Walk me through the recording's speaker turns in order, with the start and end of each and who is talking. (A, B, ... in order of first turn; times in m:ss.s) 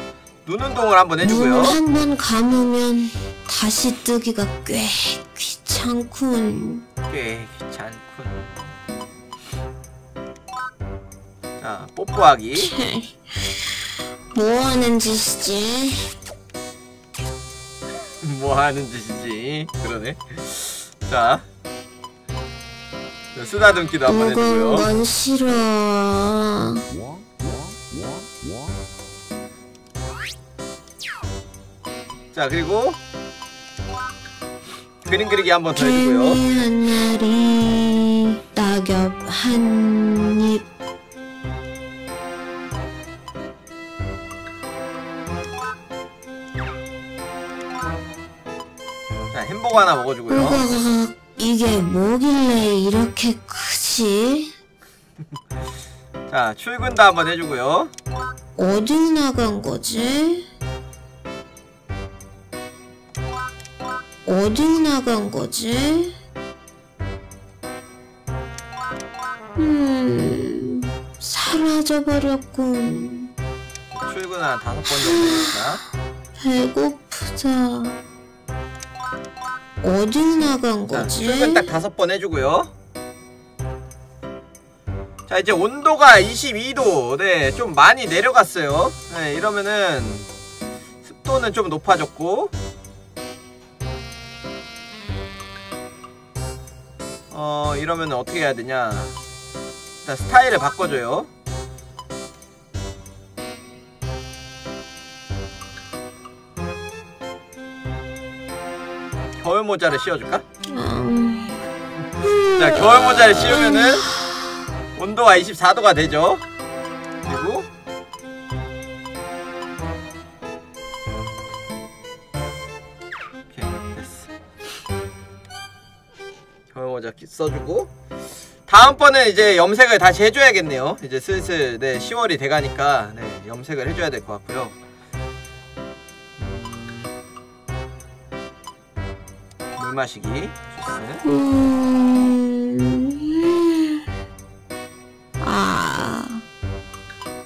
0:00.4-0:01.8 A
0:01.2-0:06.8 B
0:07.1-0:08.7 A
0:11.6-0:12.7 A
0:12.5-0:13.8 B
0:14.3-0:16.1 B
0:18.2-0:21.4 A
0:23.3-0:24.9 A
0:24.1-0:26.8 B
0:32.3-0:33.0 A
0:35.0-0:36.4 A
0:35.8-0:40.6 B
0:49.3-0:50.6 A
0:50.3-0:54.5 B
0:56.3-0:57.9 A
0:58.6-1:00.4 B
1:04.2-1:06.1 B
1:09.6-1:13.3 B
1:13.9-1:15.8 A
1:14.9-1:15.6 B
1:16.4-1:18.0 B
1:19.8-1:21.6 B
1:20.9-1:22.7 A
1:25.3-1:30.3 A
1:31.0-1:32.5 A
1:37.3-1:39.2 A
1:40.0-1:41.3 A
1:49.4-1:50.4 A
1:50.7-1:51.6 B
1:52.2-1:54.5 B
1:52.5-1:54.0 A
1:55.0-1:56.4 A
1:57.2-1:57.7 A
2:03.5-2:04.3 A
2:06.7-2:07.9 A
2:08.7-2:14.8 A
2:16.4-2:17.1 A
2:19.8-2:21.2 A
2:21.2-2:24.0 B
2:25.4-2:26.4 B